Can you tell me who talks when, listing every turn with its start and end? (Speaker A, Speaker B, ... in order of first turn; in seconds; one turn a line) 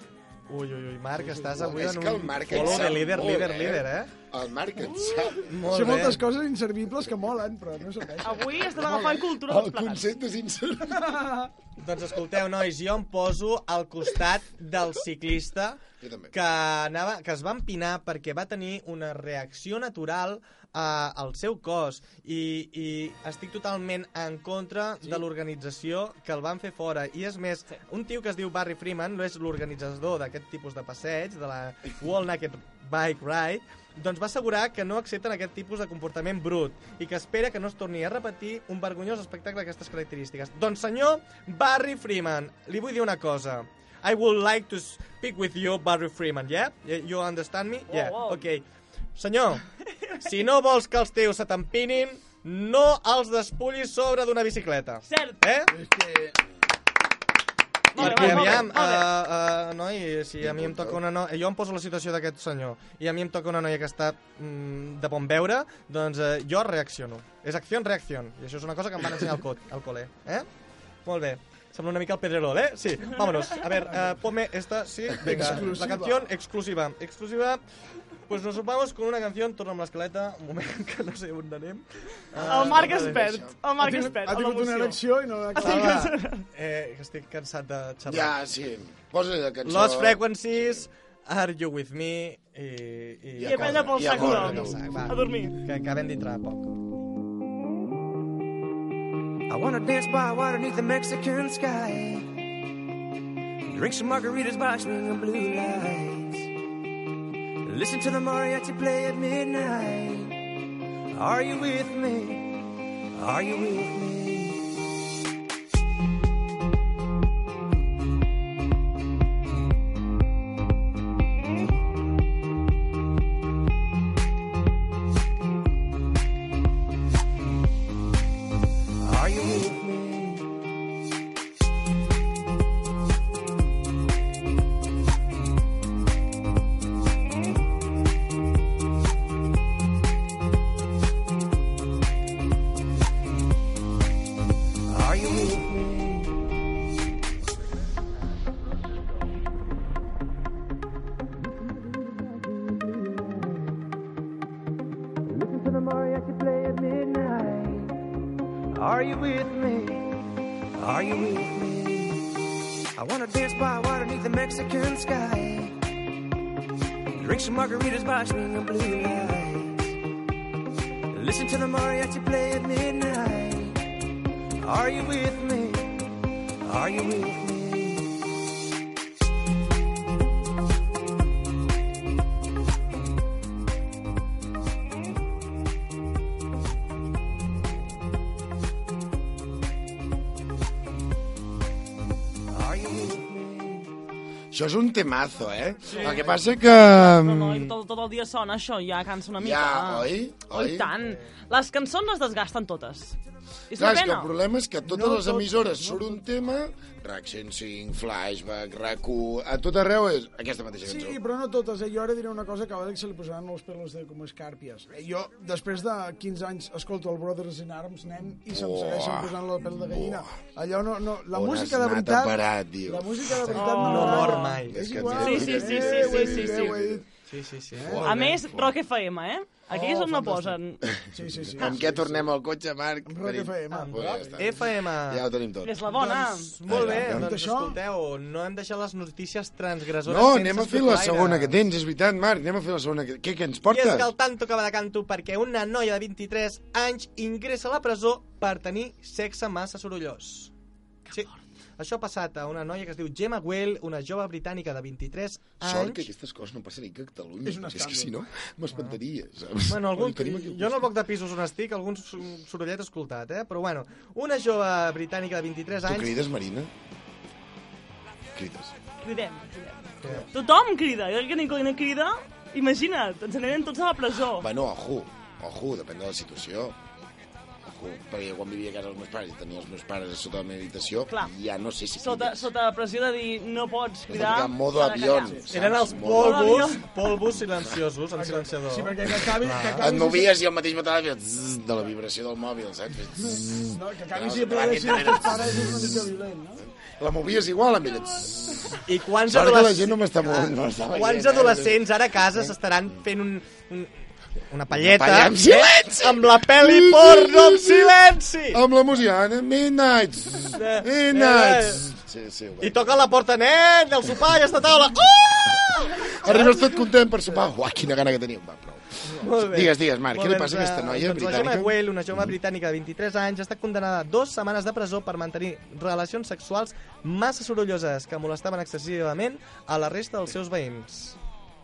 Speaker A: 0.5-4.1
Speaker B: 1.3-5.6
Speaker A: 5.5-6.2
Speaker C: 5.7-8.8
Speaker D: 8.2-10.1
Speaker B: 8.6-11.2
Speaker C: 11.1-11.4
Speaker A: 11.8-15.8
Speaker B: 16.0-16.3
Speaker A: 16.3-48.6
Speaker D: 47.9-48.4
Speaker A: 49.1-49.6
Speaker A: 50.2-55.7
Speaker D: 55.1-55.4
Speaker C: 55.7-56.4
Speaker D: 57.9-59.1
Speaker A: 58.0-70.5
Speaker B: 58.0-58.7
Speaker B: 60.4-61.0
Speaker A: 71.1-77.6
Speaker C: 75.2-76.2
Speaker A: 78.3-83.3
Speaker B: 82.3-83.5
Speaker D: 82.5-85.0
Speaker C: 83.8-86.0
Speaker D: 85.5-86.5
Speaker A: 85.6-88.3
Speaker B: 88.1-90.9
Speaker A: 89.7-96.7
Speaker B: 93.4-94.8
Speaker D: 93.4-95.6
Speaker E: 99.5-102.6
Speaker E: 103.7-106.5
Speaker E: 107.7-110.6
Speaker E: 111.1-114.8
Speaker E: 129.0-130.6
Speaker E: 144.9-146.4
Speaker E: 152.7-153.8
Speaker E: 155.3-158.0
Speaker E: 158.8-160.1
Speaker E: 160.8-165.8
Speaker E: 167.2-170.0
Speaker E: 171.1-173.9
Speaker E: 174.6-176.1
Speaker E: 176.6-178.3
Speaker E: 192.5-193.9
Speaker B: 194.5-197.7
Speaker A: 195.9-196.4
Speaker D: 196.1-203.2
Speaker B: 199.4-200.9
Speaker D: 203.7-204.3
Speaker B: 203.8-211.2
Speaker C: 204.8-206.2
Speaker C: 210.8-227.0
Speaker B: 218.5-220.4
Speaker B: 221.3-223.6
Speaker A: 223.5-224.8
Speaker D: 223.5-226.8
Speaker B: 224.7-227.0
Speaker A: 227.3-228.4
Speaker C: 227.8-228.1
Speaker D: 228.1-230.8
Speaker C: 229.7-230.6
Speaker C: 231.1-232.3
Speaker B: 231.2-235.8
Speaker C: 233.1-234.5
Speaker A: 233.7-235.2
Speaker D: 235.6-236.5
Speaker A: 235.9-241.5
Speaker B: 236.7-237.3
Speaker C: 236.7-237.8
Speaker B: 240.1-244.1
Speaker A: 243.7-250.5
Speaker A: 251.1-256.0
Speaker B: 255.6-260.9
Speaker C: 257.4-258.2
Speaker A: 258.7-259.0
Speaker A: 259.7-266.2
Speaker B: 265.8-266.7
Speaker B: 268.4-268.7
Speaker D: 269.0-274.5
Speaker B: 274.4-276.8
Speaker B: 277.6-282.5
Speaker D: 282.0-285.4
Speaker B: 284.1-286.8
Speaker A: 285.5-289.8
Speaker D: 286.1-286.9
Speaker C: 288.2-290.3
Speaker B: 289.8-302.5
Speaker C: 293.2-296.6
Speaker A: 298.9-303.9
Speaker A: 304.5-308.6
Speaker B: 304.7-308.0
Speaker B: 308.5-313.0
Speaker A: 310.6-311.9
Speaker A: 312.6-316.8
Speaker B: 315.7-322.4
Speaker A: 319.1-331.2